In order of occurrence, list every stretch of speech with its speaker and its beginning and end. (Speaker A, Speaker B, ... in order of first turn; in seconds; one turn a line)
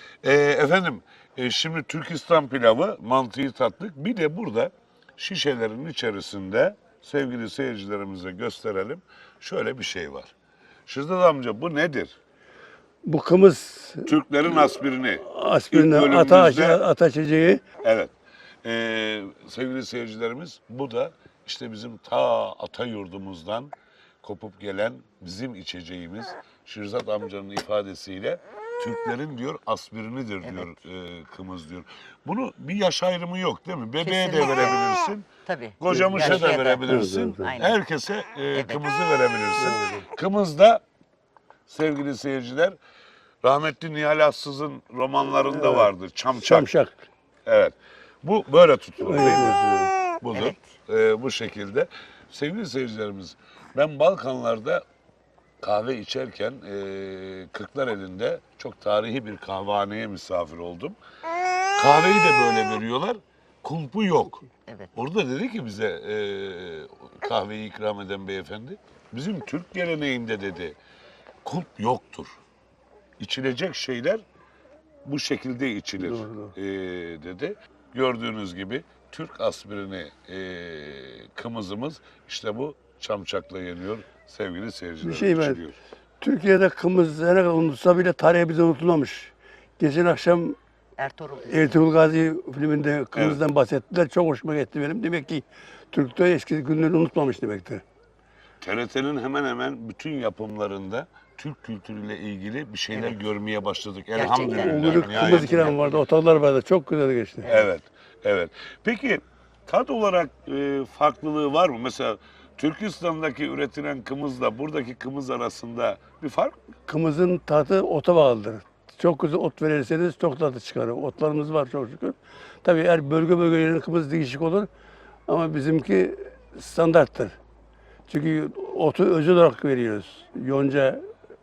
Speaker A: 0.2-10.3
Speaker A: 10.9-12.2
Speaker B: 13.1-17.6
Speaker A: 14.1-16.8
Speaker A: 17.8-35.3
Speaker C: 30.4-30.7
Speaker C: 34.0-34.8
Speaker C: 35.5-37.8
Speaker A: 35.8-40.8
Speaker B: 35.9-37.5
Speaker C: 38.5-38.8
Speaker B: 39.6-40.1
Speaker A: 41.7-42.8
Speaker A: 43.4-46.7
Speaker B: 45.5-47.1
Speaker A: 47.5-49.6
Speaker B: 49.0-49.9
Speaker A: 50.2-54.8
Speaker C: 50.3-50.7
Speaker A: 55.6-61.0
Speaker A: 61.8-70.8
Speaker C: 64.7-64.9
Speaker A: 71.4-72.4
Speaker A: 73.2-74.2
Speaker A: 75.0-85.8
Speaker B: 76.0-76.5
Speaker B: 85.0-85.6
Speaker B: 86.2-90.6
Speaker C: 91.0-91.8
Speaker B: 91.5-97.8
Speaker A: 93.1-93.4
Speaker A: 98.6-105.8
Speaker C: 102.9-103.2
Speaker C: 104.2-105.8
Speaker B: 104.2-107.5
Speaker C: 107.4-107.7
Speaker A: 107.5-116.6
Speaker B: 116.9-124.7
Speaker B: 125.3-127.4
Speaker B: 128.1-131.1